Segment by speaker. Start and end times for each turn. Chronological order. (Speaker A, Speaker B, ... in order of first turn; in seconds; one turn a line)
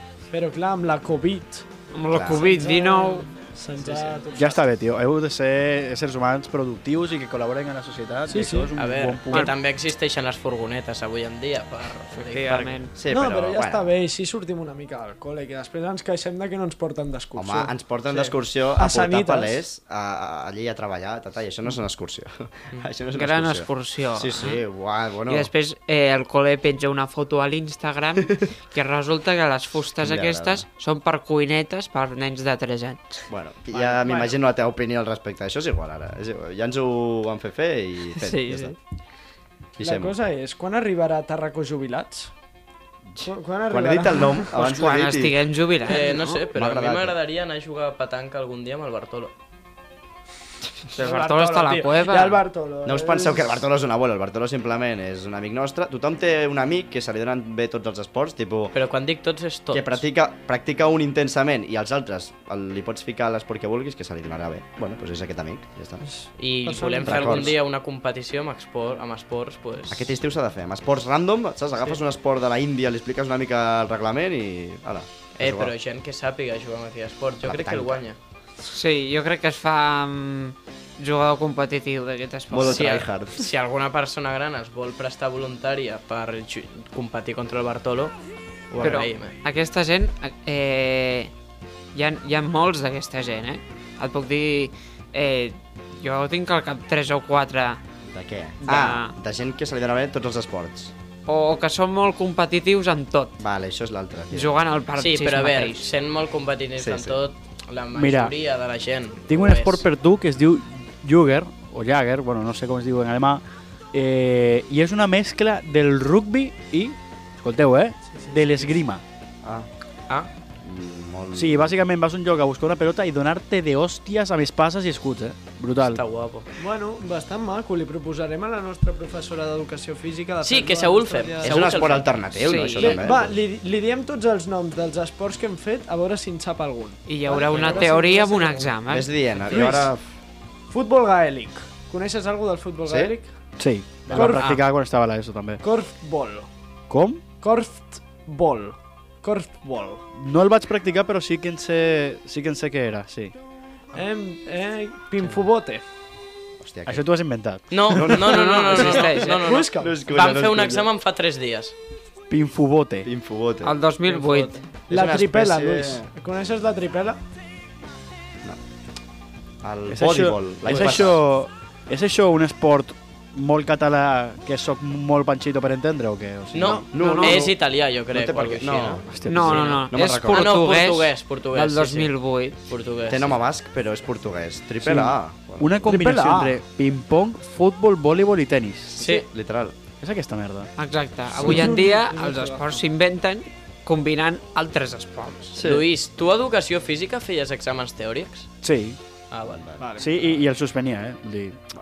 Speaker A: 0.3-1.7
Speaker B: 1.9-3.3
Speaker C: 2.1-2.5
Speaker A: 2.3-4.6
Speaker D: 3.8-4.2
Speaker E: 4.4-9.5
Speaker A: 8.3-8.7
Speaker D: 8.8-12.8
Speaker B: 12.1-12.9
Speaker C: 12.9-13.9
Speaker A: 13.1-17.7
Speaker C: 17.4-25.5
Speaker A: 18.8-19.6
Speaker B: 23.1-24.6
Speaker B: 25.3-33.3
Speaker C: 30.0-30.7
Speaker C: 33.3-38.8
Speaker A: 33.7-34.4
Speaker B: 38.2-38.8
Speaker C: 39.8-40.2
Speaker A: 39.8-42.3
Speaker C: 43.1-47.2
Speaker A: 43.2-44.6
Speaker B: 44.5-46.4
Speaker D: 45.9-49.3
Speaker A: 51.0-53.5
Speaker B: 51.0-52.4
Speaker C: 52.9-58.8
Speaker D: 58.7-60.0
Speaker C: 59.7-66.0
Speaker A: 66.1-67.6
Speaker D: 66.4-70.1
Speaker C: 67.0-67.6
Speaker C: 69.9-75.7
Speaker D: 75.4-78.2
Speaker C: 77.4-78.1
Speaker B: 78.7-83.0
Speaker C: 82.5-83.5
Speaker D: 82.6-88.1
Speaker D: 88.7-89.3
Speaker B: 88.8-91.3
Speaker B: 91.9-97.8
Speaker C: 98.1-100.9
Speaker B: 98.6-99.1
Speaker B: 101.3-103.4
Speaker C: 103.4-104.6
Speaker B: 104.3-105.9
Speaker D: 105.0-109.8
Speaker C: 106.8-107.2
Speaker E: 107.9-108.3
Speaker E: 109.3-113.4
Speaker E: 113.9-119.0
Speaker A: 118.1-118.8
Speaker C: 119.4-119.7
Speaker C: 120.6-121.8
Speaker E: 121.3-126.0
Speaker D: 125.8-126.5
Speaker A: 126.6-132.0
Speaker D: 130.4-132.2
Speaker C: 131.4-133.4
Speaker B: 132.4-133.0
Speaker A: 132.8-138.7
Speaker B: 137.1-139.1
Speaker D: 137.5-137.9
Speaker C: 138.9-140.1
Speaker A: 139.4-139.9
Speaker A: 140.7-143.3
Speaker C: 142.8-143.2
Speaker E: 143.6-145.6
Speaker A: 144.1-144.6
Speaker D: 144.1-144.6
Speaker A: 145.6-146.5
Speaker E: 146.9-147.2
Speaker A: 147.4-150.1
Speaker E: 150.2-153.3
Speaker A: 153.9-155.8
Speaker C: 156.6-157.0
Speaker E: 156.9-158.2
Speaker D: 157.7-161.8
Speaker C: 157.9-158.9
Speaker B: 158.1-159.4
Speaker A: 158.7-159.9
Speaker C: 159.7-160.9
Speaker E: 162.3-163.1
Speaker C: 163.1-163.8
Speaker B: 163.6-164.6
Speaker D: 164.1-164.5
Speaker A: 164.9-167.2
Speaker C: 164.9-166.1
Speaker C: 169.6-171.2
Speaker E: 169.9-176.9
Speaker D: 170.7-171.1
Speaker D: 176.5-182.1
Speaker C: 176.9-177.5
Speaker B: 177.0-177.4
Speaker C: 178.1-179.1
Speaker E: 179.1-179.8
Speaker B: 179.3-182.6
Speaker C: 179.9-180.6
Speaker D: 182.7-183.4
Speaker C: 183.1-185.8
Speaker E: 184.8-189.0
Speaker A: 185.8-186.6
Speaker C: 188.9-189.8
Speaker D: 189.0-189.3
Speaker E: 190.0-190.7
Speaker B: 190.8-195.6
Speaker A: 191.4-192.8
Speaker C: 195.6-195.8
Speaker D: 195.6-198.5
Speaker E: 198.6-199.0
Speaker D: 199.3-199.8
Speaker A: 199.8-200.1
Speaker E: 200.0-201.6